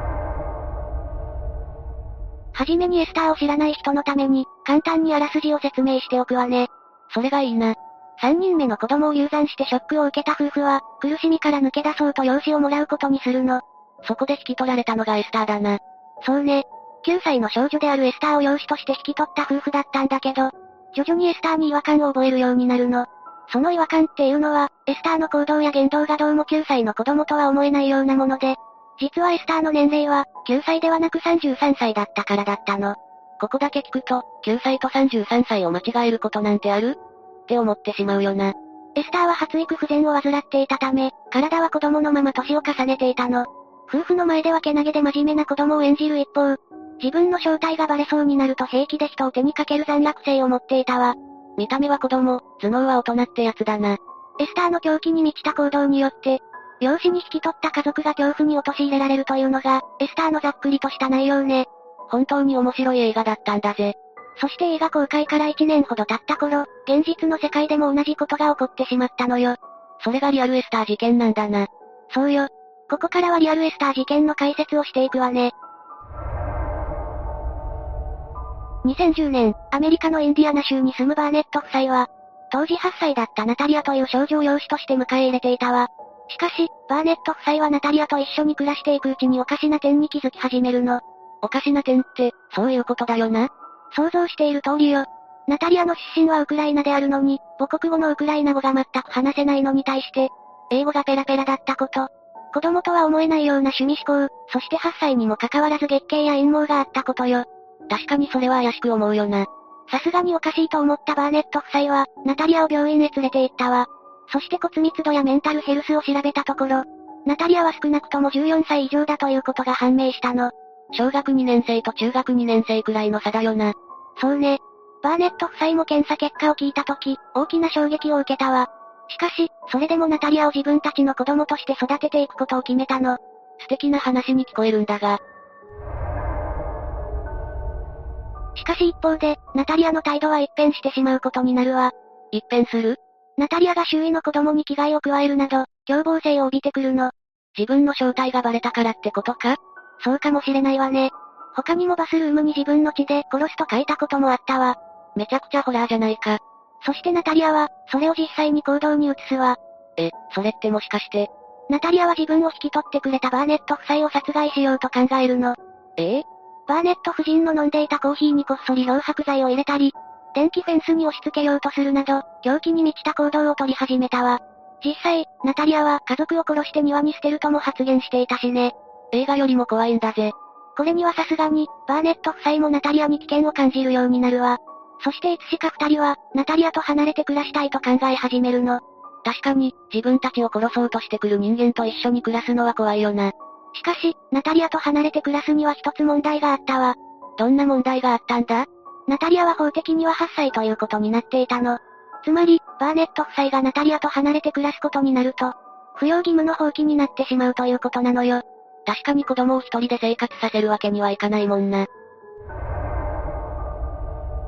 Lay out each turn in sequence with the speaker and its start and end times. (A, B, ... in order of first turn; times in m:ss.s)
0:02.5-1:15.5 A
1:18.8-2:15.2 A
2:18.5-3:31.9 A